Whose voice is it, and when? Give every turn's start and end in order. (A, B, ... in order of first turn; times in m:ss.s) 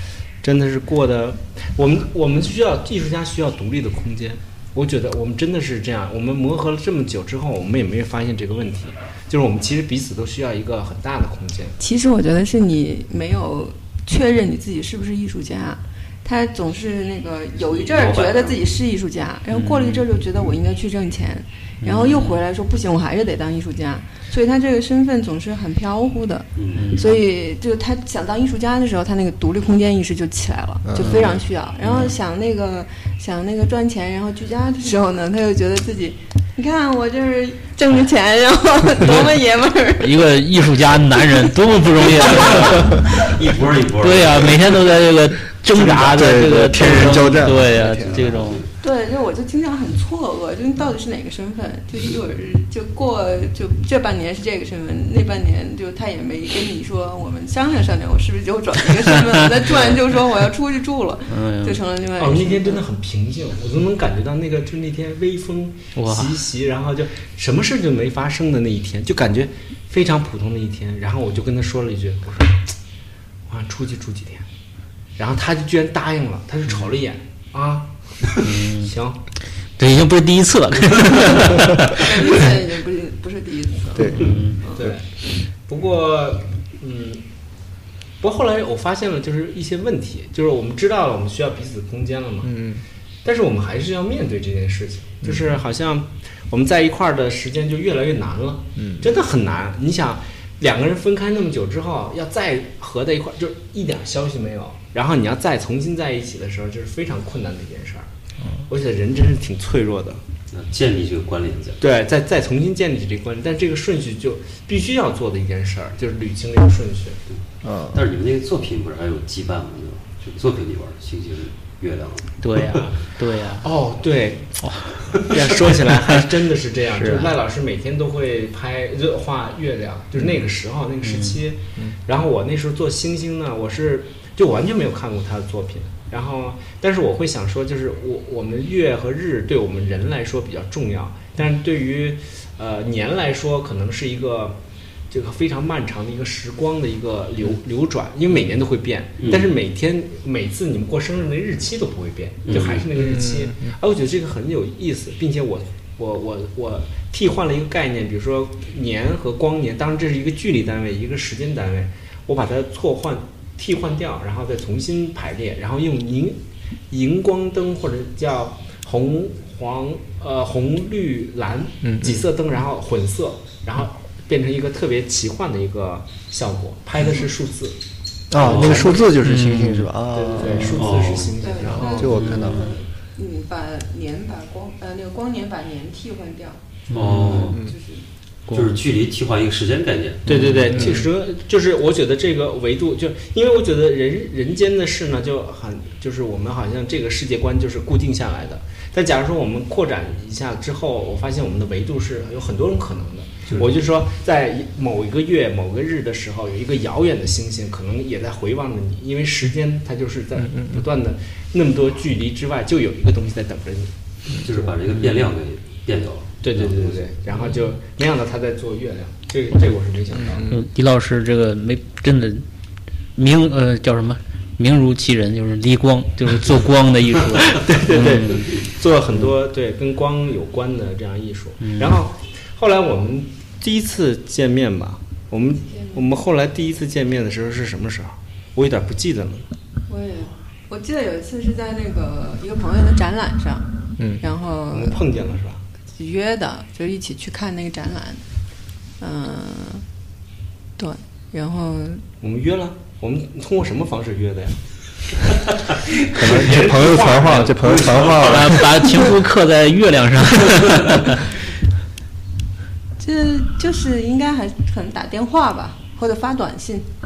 0:00.4-0:11.7 A
0:11.8-0:40.2 B
0:17.6-0:18.7 C
0:19.5-0:20.0 D
0:21.8-0:22.4 D
0:26.6-0:26.9 C
0:26.7-0:27.2 D
0:30.8-0:31.3 E
0:31.0-0:32.1 D
0:39.0-0:39.3 D
0:40.0-0:43.0 D
0:42.1-0:44.6 C
0:44.0-0:48.6 D
0:45.7-0:48.4 E
0:47.9-0:48.7 C
0:48.8-1:02.8 B
1:01.3-1:01.8 D
1:02.2-1:12.7 A
1:06.0-1:06.3 D
1:13.5-1:14.4 A
1:15.2-1:17.9 A
1:18.4-1:18.9 D
1:18.8-1:19.2 A
1:19.8-1:22.1 D
1:21.9-1:24.9 B
1:23.9-1:24.9 E
1:24.1-1:24.6 D
1:24.7-1:25.0 A
1:25.6-1:27.2 A
1:28.2-1:32.6 A
1:32.4-1:32.8 E
1:33.2-1:48.1 A
1:38.8-1:39.0 E
1:48.7-1:50.2 A
1:50.5-1:51.8 C
1:51.8-1:57.2 A
1:57.6-1:58.0 E
1:57.9-2:02.8 C
2:02.4-2:03.7 D
2:03.6-2:04.6 A
2:04.6-2:05.1 D
2:05.2-2:24.6 A
2:06.9-2:07.3 D
2:11.0-2:11.4 D
2:25.1-2:57.8 A
2:29.2-2:29.5 C
2:32.5-2:32.9 C
2:32.9-2:33.7 E
2:51.8-2:52.2 E
2:58.3-3:02.8 E
2:58.4-2:59.0 A
2:59.0-2:59.9 D
3:00.1-3:02.1 A
3:00.8-3:01.3 C
3:01.4-3:06.6 B
3:02.1-3:02.6 D
3:06.9-3:07.6 D
3:06.9-3:07.6 C
3:07.5-3:07.7 E
3:07.6-3:08.0 B
3:08.5-3:08.8 D
3:08.5-3:10.5 C
3:10.3-3:11.0 D
3:10.3-3:33.9 A
3:34.4-3:37.1 C
3:36.4-3:40.5 A
3:40.5-3:42.4 D
3:43.2-3:48.6 D
3:47.5-3:59.5 A
3:51.6-3:51.9 D
3:59.9-4:03.7 B
4:04.0-4:04.2 E
4:04.2-4:05.0 B
4:04.7-4:05.6 A
4:05.9-4:08.2 B
4:09.0-4:09.8 B
4:10.8-4:12.0 B
4:12.2-4:14.6 A
4:16.1-4:18.7 A
4:16.1-4:18.6 E
4:18.2-4:21.3 D
4:23.0-4:26.9 B